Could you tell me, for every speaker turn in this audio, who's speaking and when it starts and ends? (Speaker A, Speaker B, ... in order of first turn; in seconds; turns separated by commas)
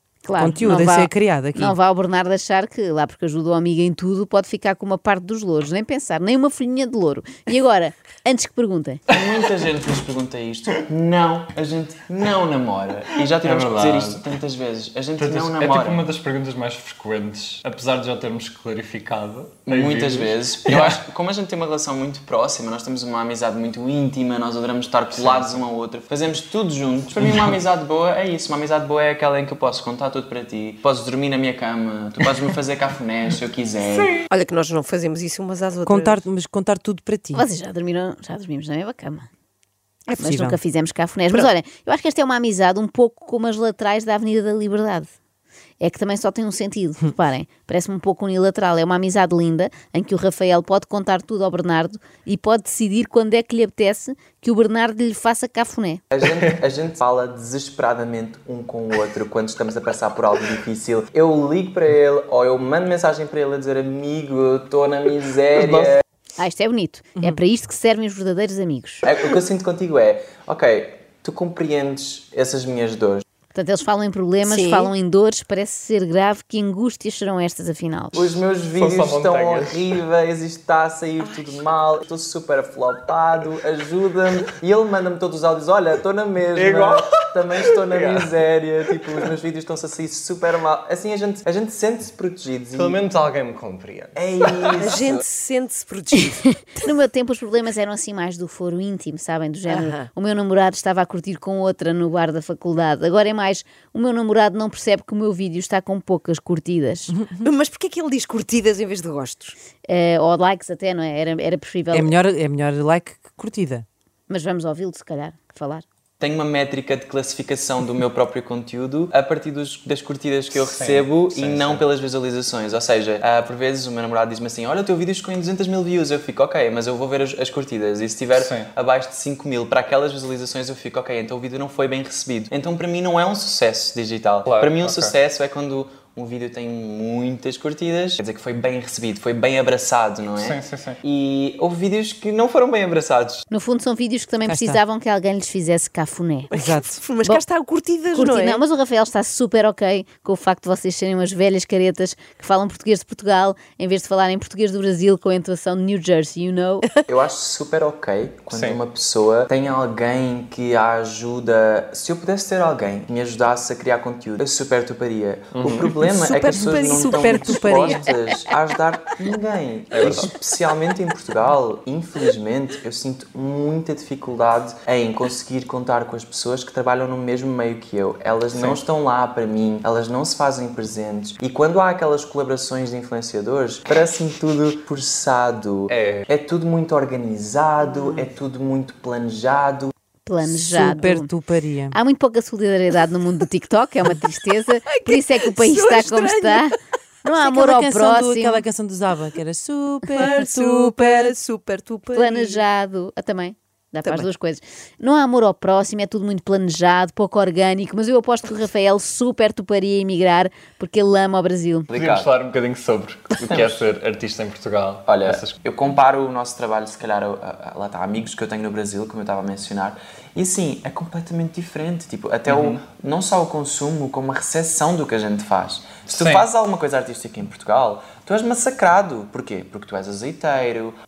Speaker A: 0.2-9.0, Speaker B: 0.3-1.8, Speaker C: 9.1-16.0, Speaker D: 13.4-14.2, Speaker D: 15.2-21.0, Speaker C: 19.6-34.2, Speaker D: 25.1-25.6, Speaker E: 34.3-36.2, Speaker B: 35.8-37.5, Speaker A: 37.3-39.3, Speaker B: 40.2-40.6, Speaker A: 40.2-45.1, Speaker A: 45.8-56.0, Speaker C: 56.1-66.0, Speaker A: 66.4-69.0, Speaker C: 69.0-73.2, Speaker A: 73.5-78.3, Speaker E: 74.5-74.9, Speaker C: 78.1-93.0, Speaker D: 78.7-79.9, Speaker D: 86.5-88.3, Speaker D: 92.7-94.2, Speaker C: 94.2-95.2, Speaker E: 94.8-96.6, Speaker A: 96.7-107.1, Speaker E: 99.7-100.1, Speaker E: 107.4-109.5, Speaker A: 109.9-112.1, Speaker B: 111.9-113.8, Speaker A: 114.3-115.8, Speaker C: 116.2-143.4, Speaker D: 120.6-121.8, Speaker D: 128.3-128.7, Speaker D: 134.4-135.1, Speaker D: 140.3-141.0, Speaker A: 143.5-146.5, Speaker B: 144.4-144.8, Speaker E: 146.5-148.6, Speaker B: 146.5-146.9, Speaker A: 148.1-156.9, Speaker C: 157.0-189.9, Speaker D: 158.5-158.8, Speaker D: 165.5-165.9, Speaker E: 166.0-168.0, Speaker B: 167.1-168.0, Speaker D: 169.9-170.3, Speaker D: 178.5-178.8, Speaker D: 185.9-186.3, Speaker E: 187.8-188.2, Speaker A: 190.2-191.3, Speaker B: 190.5-192.0, Speaker A: 191.9-196.7, Speaker E: 194.9-196.7, Speaker A: 197.2-198.6, Speaker B: 197.3-201.3, Speaker E: 200.2-202.6, Speaker A: 202.1-211.9, Speaker E: 204.0-204.3, Speaker C: 211.9-212.3, Speaker D: 211.9-215.5, Speaker C: 213.4-213.8, Speaker C: 215.1-230.9, Speaker D: 222.5-222.8, Speaker D: 226.1-226.4